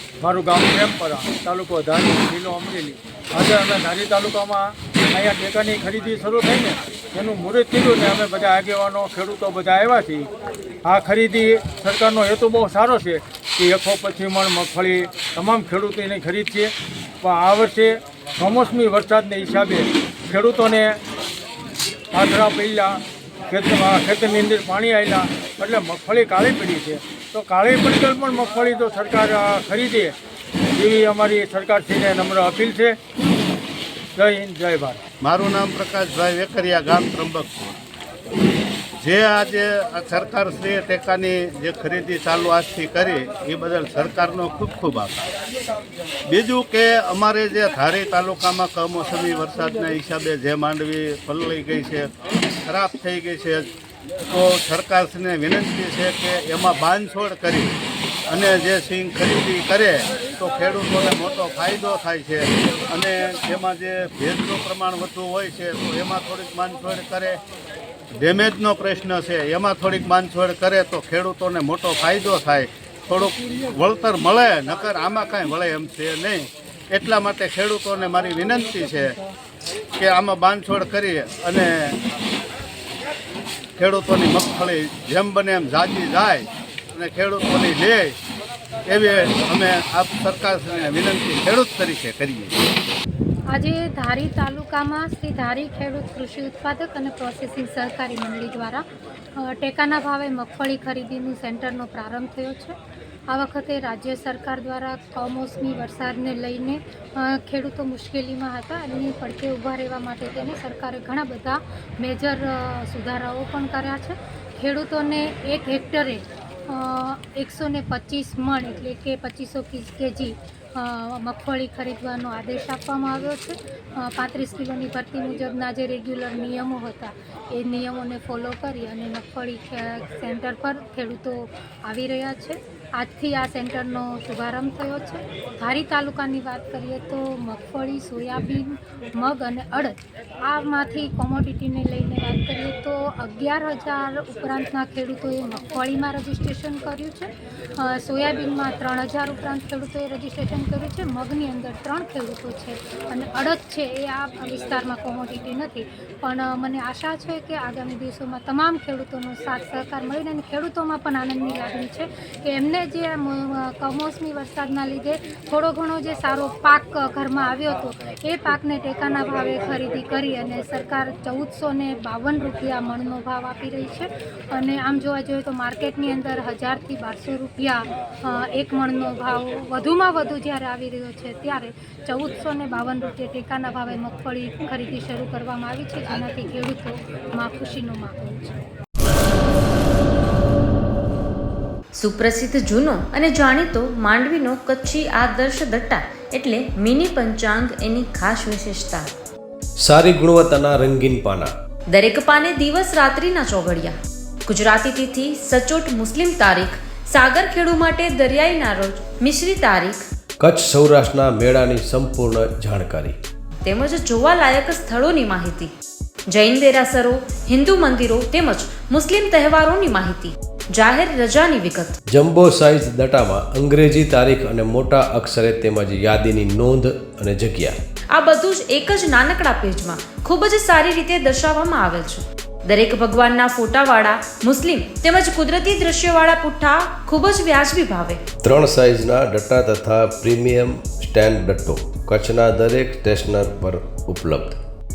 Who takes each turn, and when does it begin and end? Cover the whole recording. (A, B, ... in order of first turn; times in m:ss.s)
0:00.2-0:10.3 A
0:10.8-0:21.0 A
0:22.1-0:30.1 A
0:30.8-0:33.0 A
0:34.2-0:35.0 A
0:35.2-0:37.8 B
0:39.0-0:45.2 B
0:46.3-0:52.1 B
0:52.7-0:53.6 B
0:54.3-0:57.7 B
0:58.3-1:07.4 B
1:08.2-1:19.1 B
1:20.0-1:22.0 B
1:23.8-1:28.2 B
1:28.9-1:32.6 B
1:33.5-1:38.8 C
1:39.4-1:42.8 C
1:43.3-3:08.6 C
3:12.0-3:19.1 D
3:19.8-3:21.5 E
3:21.9-3:23.9 D
3:24.5-3:30.0 D
3:30.4-3:33.2 E
3:33.6-3:35.7 D
3:36.3-3:42.0 D
3:42.1-3:47.8 E
3:48.1-3:58.2 D
3:58.4-4:04.6 E